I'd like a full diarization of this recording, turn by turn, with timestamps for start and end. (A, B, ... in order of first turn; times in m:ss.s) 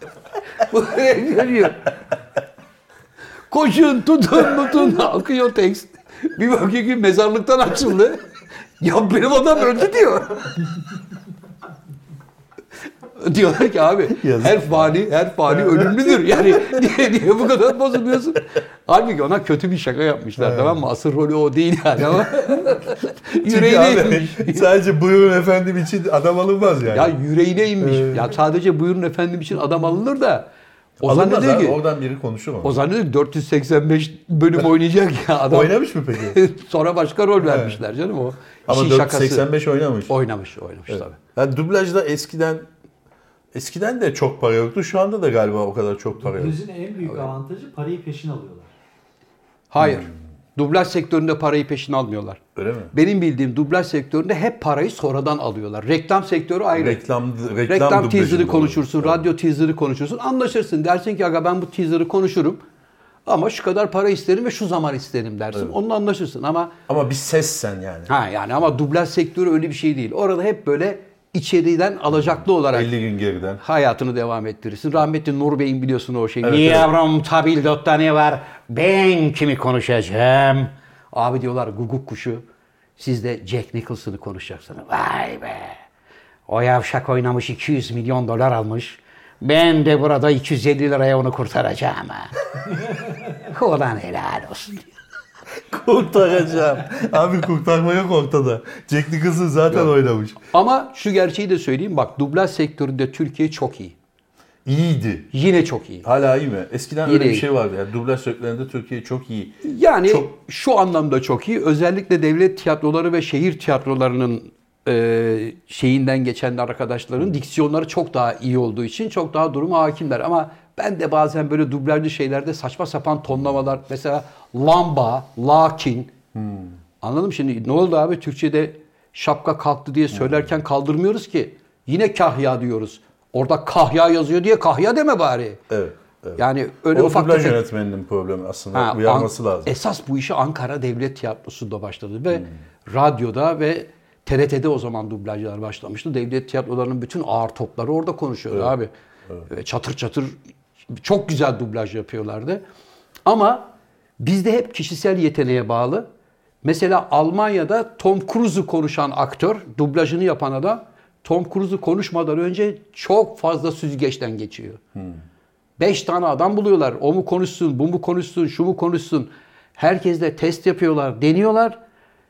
0:00.6-0:01.9 A
0:03.5-0:08.3 A
0:08.8-0:10.6 A
0:13.2-0:24.7 A
0:14.1-0:14.9 B
0:15.5-0:16.8 B
0:20.4-0:20.8 B
0:23.4-0:27.2 B
0:26.9-0:30.5 A
0:27.8-0:28.4 B
0:31.0-0:31.8 A
0:31.0-0:32.8 B
0:32.6-0:39.5 A
0:35.5-0:36.4 B
0:37.4-0:37.8 B
0:38.7-0:40.1 B
0:40.1-0:41.2 A
0:40.9-0:42.7 B
0:43.5-0:46.6 B
0:46.2-0:48.7 C
0:49.7-0:52.4 A
0:49.8-0:50.1 B
0:52.6-0:52.9 B
0:52.9-0:57.0 A
0:56.7-0:59.3 B
0:57.7-1:02.6 A
1:03.3-1:06.7 A
1:06.9-1:08.1 B
1:08.1-1:12.9 A
1:12.7-1:13.6 B
1:13.6-1:22.4 A
1:16.4-1:16.9 B
1:23.0-1:25.8 A
1:26.5-1:32.3 A
1:33.3-1:34.9 A
1:35.7-1:40.4 B
1:40.5-1:44.0 A
1:44.6-1:45.3 B
1:45.3-1:46.1 A
1:46.0-1:50.3 B
1:47.0-1:47.5 A
1:49.6-2:06.1 A
2:06.3-2:06.8 B
2:07.0-2:15.6 A
2:10.1-2:10.4 B
2:15.7-2:19.7 B
2:16.4-2:17.6 A
2:18.7-2:28.9 A
2:29.5-2:30.4 A
2:30.9-2:32.6 A
2:33.3-2:36.1 A
2:36.6-2:44.8 A
2:45.8-2:51.8 A